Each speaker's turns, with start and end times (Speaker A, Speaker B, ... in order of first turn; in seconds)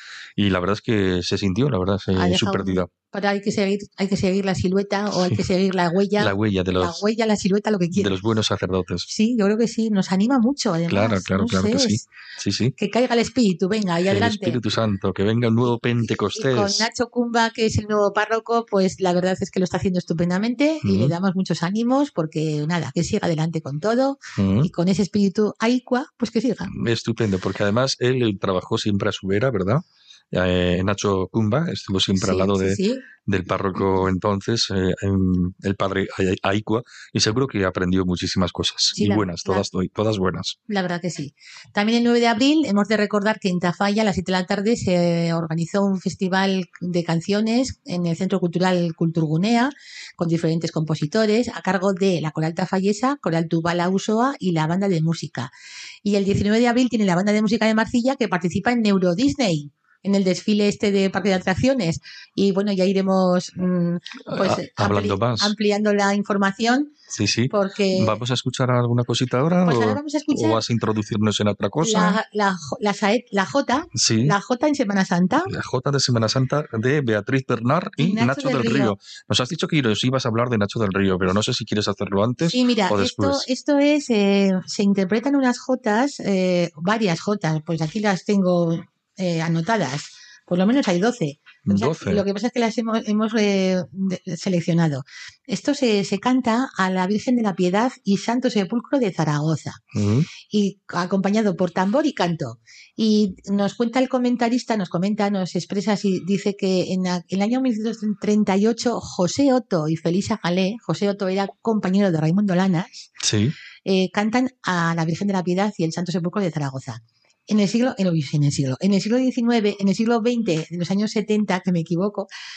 Speaker A: 0.4-2.9, 6.2-7.0, 8.0-9.1, 10.9-12.8, 14.1-16.9, 20.8-21.1, 24.4-24.7, 26.7-40.6, 64.3-65.5, 67.1-72.2, 74.0-74.3, 75.5-83.5, 91.7-92.2, 100.0-100.3, 113.2-113.5
Speaker B: 2.1-8.2, 9.1-12.1, 12.8-14.6, 15.7-26.7, 32.2-33.0, 33.8-34.0, 39.0-39.7, 40.7-55.5, 56.0-66.9, 67.5-68.2, 69.6-70.6, 71.8-75.5, 78.0-79.0, 82.4-99.8, 100.5-113.1, 113.8-122.3